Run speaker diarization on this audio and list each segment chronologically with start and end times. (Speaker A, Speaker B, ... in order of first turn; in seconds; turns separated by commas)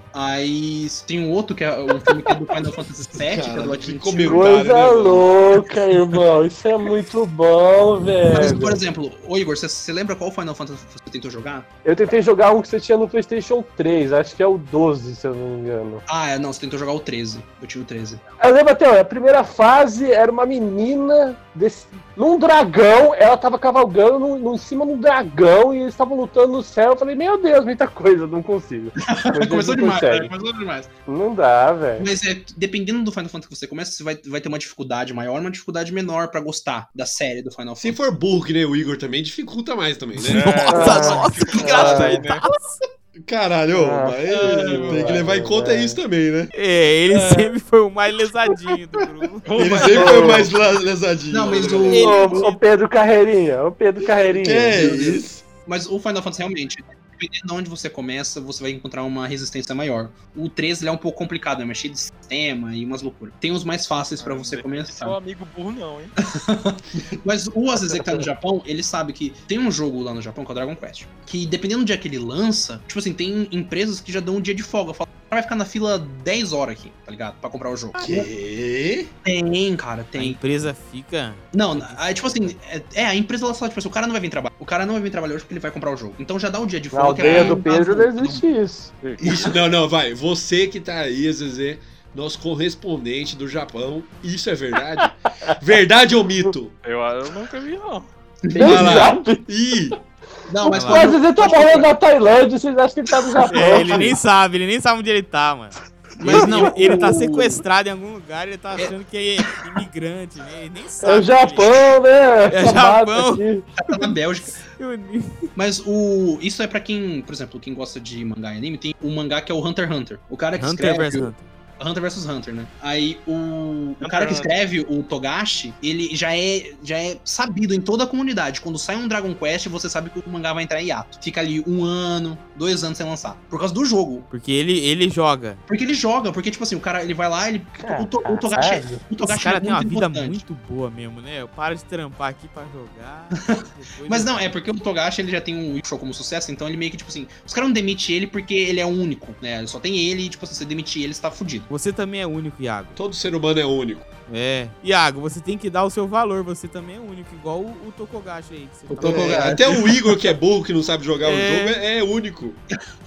Speaker A: 0.1-4.5, Speaker B: 3.2-5.4, Speaker C: 4.3-8.8, Speaker A: 8.3-11.7, Speaker C: 11.8-16.0, Speaker A: 16.1-18.2, Speaker C: 18.4-30.3, Speaker A: 29.0-30.9, Speaker C: 31.1-32.1, Speaker A: 32.0-38.0, Speaker B: 37.8-41.1, Speaker D: 40.2-42.4, Speaker E: 40.2-42.5, Speaker C: 40.7-42.2, Speaker B: 43.2-46.5, Speaker C: 43.7-46.0, Speaker A: 44.3-45.1, Speaker E: 46.5-50.5, Speaker D: 49.4-50.5, Speaker B: 49.5-52.1, Speaker A: 51.3-52.4, Speaker E: 51.7-52.6, Speaker C: 52.0-55.2, Speaker B: 54.4-55.4, Speaker A: 54.8-65.2, Speaker D: 64.2-66.1, Speaker A: 66.3-78.3, Speaker B: 78.0-79.1, Speaker A: 79.2-80.4, Speaker E: 80.2-82.5, Speaker A: 81.5-88.5, Speaker C: 86.9-88.9, Speaker B: 89.2-96.7, Speaker C: 95.0-95.6, Speaker D: 96.8-98.1, Speaker A: 98.4-99.2, Speaker C: 98.5-99.5, Speaker B: 98.6-100.0, Speaker A: 100.5-101.9, Speaker C: 100.6-104.2, Speaker E: 100.6-101.1, Speaker E: 103.5-111.8, Speaker A: 106.2-107.6, Speaker C: 106.3-106.6, Speaker C: 111.0-113.7, Speaker E: 112.5-115.5, Speaker A: 113.8-114.6, Speaker A: 115.5-134.3, Speaker E: 120.6-121.4, Speaker D: 124.0-124.5, Speaker E: 134.3-135.6, Speaker A: 135.7-140.4, Speaker C: 137.8-139.0, Speaker E: 139.2-144.6, Speaker A: 143.4-151.7, Speaker E: 151.7-153.0, Speaker B: 152.9-154.0, Speaker E: 154.3-159.7, Speaker A: 158.9-160.2, Speaker B: 159.0-162.6, Speaker E: 161.2-161.8